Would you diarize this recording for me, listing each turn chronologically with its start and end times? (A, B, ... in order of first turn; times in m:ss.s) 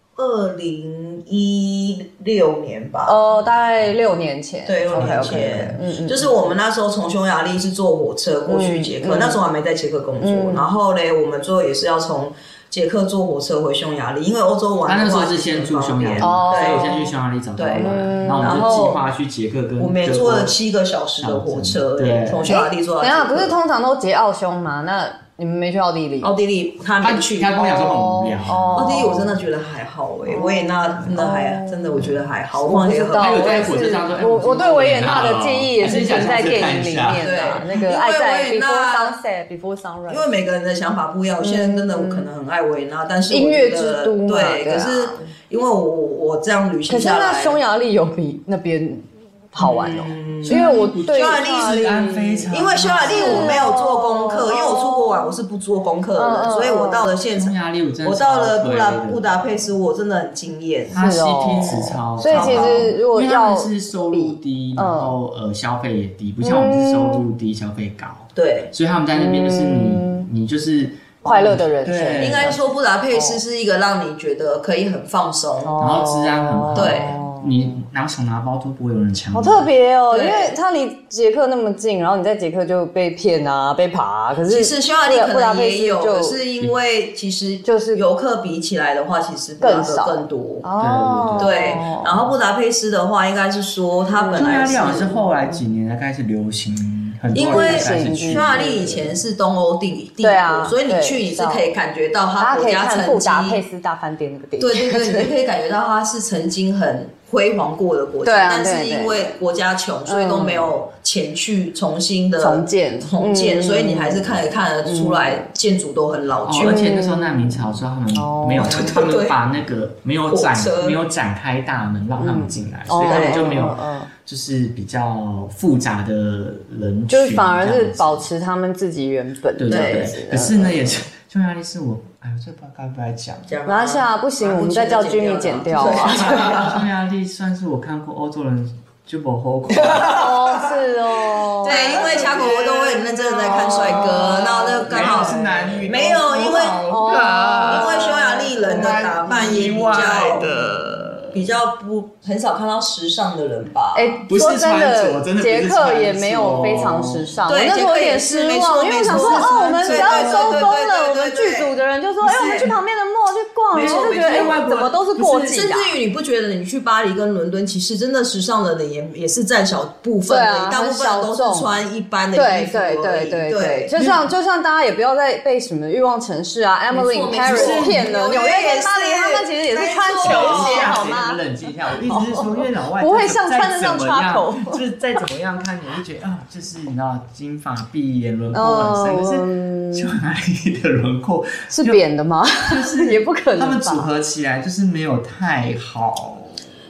0:00.2-0:03.2 A
0:03.1-0:06.3 B
0:04.7-0:16.9 A
0:04.9-0:05.8 C
0:08.5-0:09.4 B
0:10.2-0:10.7 B
0:14.9-0:20.5 C
0:16.2-0:17.1 B
0:17.6-0:19.1 A
0:17.8-0:19.0 B
0:19.8-0:23.6 A
0:21.2-0:22.6 C
0:22.4-0:26.4 B
0:26.2-0:27.9 A
0:27.0-0:29.0 C
0:27.6-0:29.4 B
0:28.8-0:33.8 A
0:30.3-0:40.3 B
0:33.1-0:37.3 C
0:37.2-0:39.2 A
0:40.1-0:47.6 A
0:41.4-0:42.3 B
0:43.3-0:45.3 B
0:46.9-0:55.4 B
0:49.6-0:51.9 A
0:50.4-0:53.6 C
0:52.5-1:01.0 A
0:56.2-0:57.1 B
0:57.4-0:59.5 C
1:00.9-1:12.6 C
1:01.0-1:05.1 B
1:02.3-1:02.9 A
1:06.4-1:07.2 B
1:08.4-1:08.7 A
1:09.1-1:10.3 B
1:11.2-1:12.6 B
1:12.2-1:15.8 A
1:13.1-1:13.4 B
1:15.6-1:17.8 B
1:15.8-1:19.7 C
1:16.7-1:17.2 A
1:19.3-1:26.4 B
1:20.1-1:20.6 A
1:24.5-1:30.7 A
1:27.6-1:28.0 B
1:29.6-1:32.3 B
1:30.8-1:31.6 C
1:31.4-1:35.2 A
1:34.2-1:34.8 B
1:34.4-1:39.0 C
1:37.3-1:43.6 A
1:37.4-1:39.0 B
1:40.2-1:41.7 B
1:42.4-1:45.3 B
1:44.6-1:56.9 A
1:48.2-1:49.3 B
1:50.1-1:50.7 B
1:52.4-1:55.5 B
1:56.5-2:08.3 C
1:56.6-1:58.9 B
1:58.6-1:59.4 A
2:00.3-2:01.0 A
2:02.2-2:04.1 B
2:03.1-2:03.7 A
2:07.1-2:11.0 B
2:09.6-2:13.5 C
2:09.7-2:10.1 A
2:13.5-2:16.8 A
2:13.7-2:16.6 B
2:16.2-2:20.8 C
2:19.8-2:22.6 B
2:21.6-2:31.4 C
2:21.6-2:30.7 A
2:23.4-2:29.3 B
2:31.3-2:34.2 A
2:34.0-2:45.9 B
2:34.3-2:37.4 C
2:37.5-2:42.7 A
2:39.0-2:40.6 C
2:43.7-2:44.6 A
2:43.8-2:45.6 C
2:45.5-2:54.0 A
2:50.3-2:51.8 B
2:52.4-3:01.4 B
2:56.9-3:01.0 A
2:57.5-2:58.1 C
3:00.2-3:12.0 C
3:02.0-3:04.8 B
3:08.5-3:10.1 B
3:11.7-3:14.1 B
3:12.6-3:16.6 C